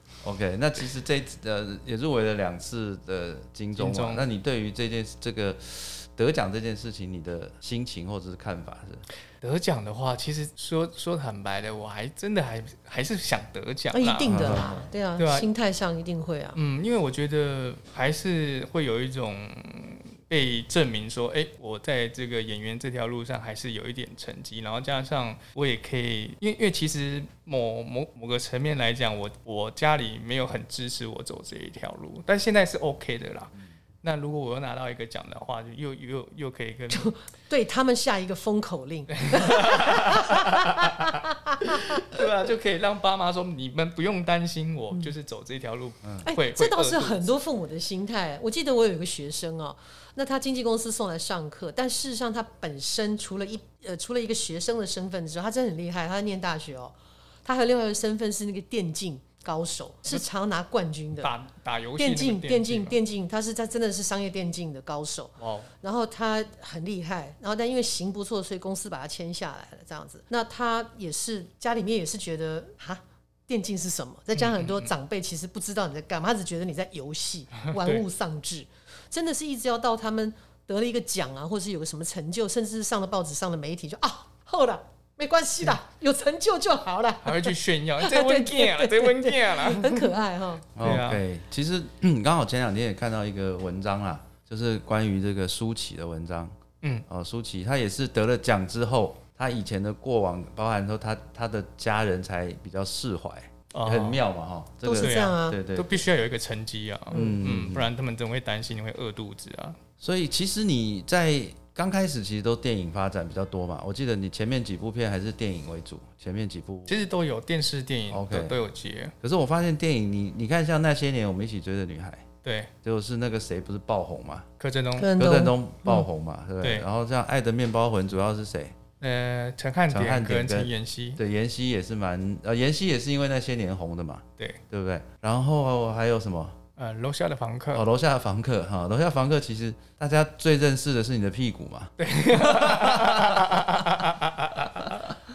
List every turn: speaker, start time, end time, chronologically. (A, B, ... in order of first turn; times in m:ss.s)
0:00.2-0:09.0 A
0:03.8-0:04.2 B
0:09.4-0:15.5 B
0:13.9-0:16.6 C
0:14.3-0:14.9 A
0:16.5-0:37.1 B
0:36.9-0:42.0 C
0:39.1-0:41.1 B
0:41.7-0:47.3 B
0:46.2-1:01.3 C
1:01.2-1:03.0 B
1:02.0-1:30.7 C
1:05.4-1:05.7 B
1:14.4-1:14.9 B
1:17.7-1:18.0 B
1:27.2-1:30.1 B
1:30.8-1:36.5 A
1:30.8-1:31.2 B
1:37.1-1:46.0 A
1:43.7-1:44.2 B
1:44.8-1:45.6 C
1:45.0-1:49.8 B
1:47.1-1:47.9 A
1:47.1-1:47.4 C
1:50.0-1:57.0 A
1:56.9-1:59.1 B
1:58.1-1:58.6 A
1:59.2-2:02.3 A
2:02.4-2:02.7 B
2:02.8-2:04.5 A
2:04.6-2:05.2 B
2:05.0-2:06.0 C
2:05.1-2:08.8 A
2:09.0-2:11.2 B
2:09.9-2:16.6 A
2:16.8-2:17.8 B
2:17.7-2:23.6 A
2:22.0-2:25.1 B